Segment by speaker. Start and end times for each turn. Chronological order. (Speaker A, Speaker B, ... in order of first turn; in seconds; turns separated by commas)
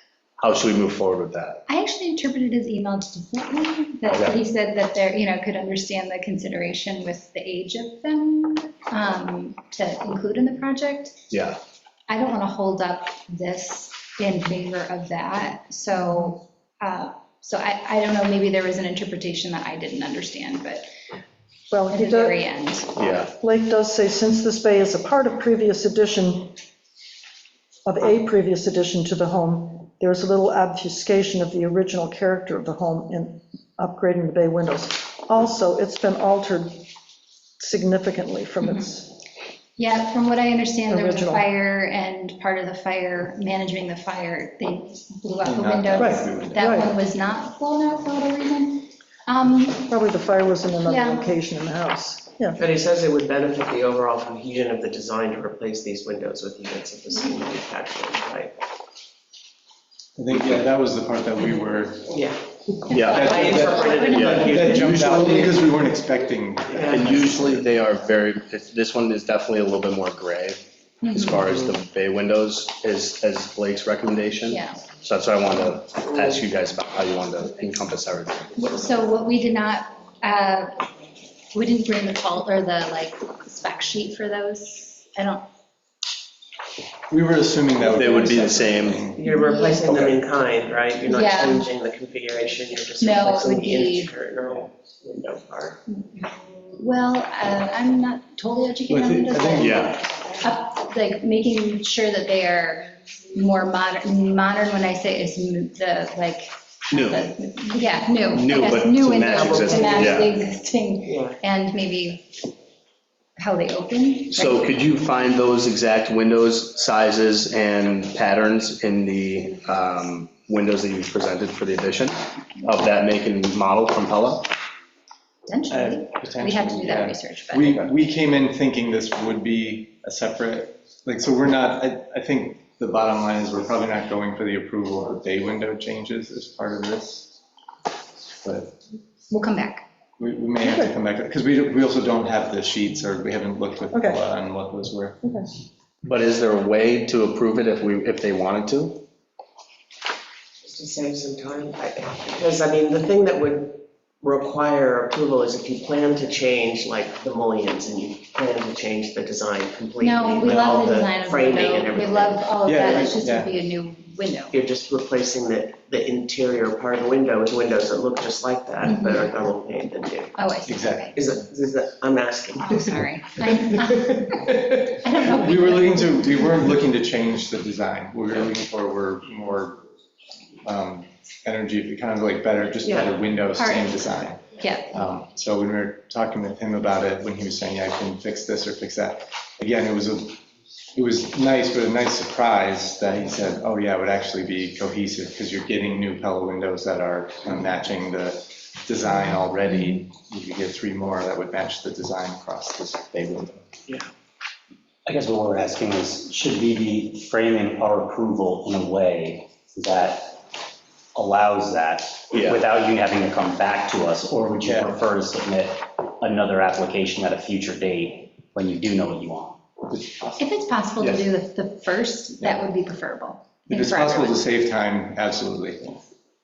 Speaker A: 0.4-1.6, Speaker B: 1.7-11.2, Speaker A: 4.1-4.4, Speaker A: 11.3-11.6, Speaker B: 12.1-20.9, Speaker C: 21.7-22.4, Speaker B: 21.9-22.9, Speaker A: 22.9-23.3, Speaker C: 23.4-26.6, Speaker C: 27.8-36.9, Speaker C: 37.6-39.1, Speaker B: 38.6-38.9, Speaker B: 39.8-49.9, Speaker C: 40.9-41.4, Speaker D: 45.4-46.8, Speaker C: 46.0-46.9, Speaker C: 49.9-52.6, Speaker B: 50.8-51.3, Speaker E: 52.6-58.5, Speaker D: 60.1-62.2, Speaker E: 62.1-65.6, Speaker B: 62.9-64.9, Speaker A: 62.9-65.5, Speaker D: 63.0-67.4, Speaker E: 66.7-67.6, Speaker A: 66.9-78.5, Speaker B: 71.0-71.4, Speaker B: 74.5-74.8, Speaker B: 78.5-80.8, Speaker B: 81.5-85.4, Speaker D: 87.1-89.2, Speaker A: 87.8-89.1, Speaker E: 89.2-95.8, Speaker B: 89.2-89.9, Speaker B: 91.1-91.7, Speaker B: 93.0-94.1, Speaker B: 95.9-112.4, Speaker D: 98.9-99.9, Speaker A: 99.6-100.0, Speaker A: 106.9-107.3, Speaker A: 108.3-110.3, Speaker E: 109.4-110.3, Speaker E: 111.0-111.4, Speaker B: 113.4-114.7, Speaker A: 114.3-124.5, Speaker B: 125.5-127.8, Speaker D: 125.7-137.4, Speaker D: 138.4-138.7, Speaker B: 139.3-139.8, Speaker D: 140.2-145.2, Speaker C: 140.6-140.9, Speaker C: 143.9-144.2, Speaker C: 145.2-145.5, Speaker A: 146.0-149.0, Speaker E: 150.6-162.5, Speaker B: 160.0-164.6, Speaker D: 160.4-160.8, Speaker D: 162.6-163.5, Speaker E: 164.5-170.3, Speaker B: 168.8-169.3, Speaker B: 170.3-171.2, Speaker D: 170.7-171.1, Speaker E: 171.1-172.9, Speaker B: 172.6-176.2, Speaker D: 175.3-179.8, Speaker D: 180.6-190.4, Speaker E: 182.8-183.1, Speaker B: 183.5-184.9, Speaker D: 190.9-203.7, Speaker F: 205.1-210.4, Speaker F: 211.1-219.6, Speaker A: 212.3-212.6, Speaker D: 220.1-220.4, Speaker B: 220.4-224.4, Speaker D: 222.4-222.7, Speaker D: 223.7-226.0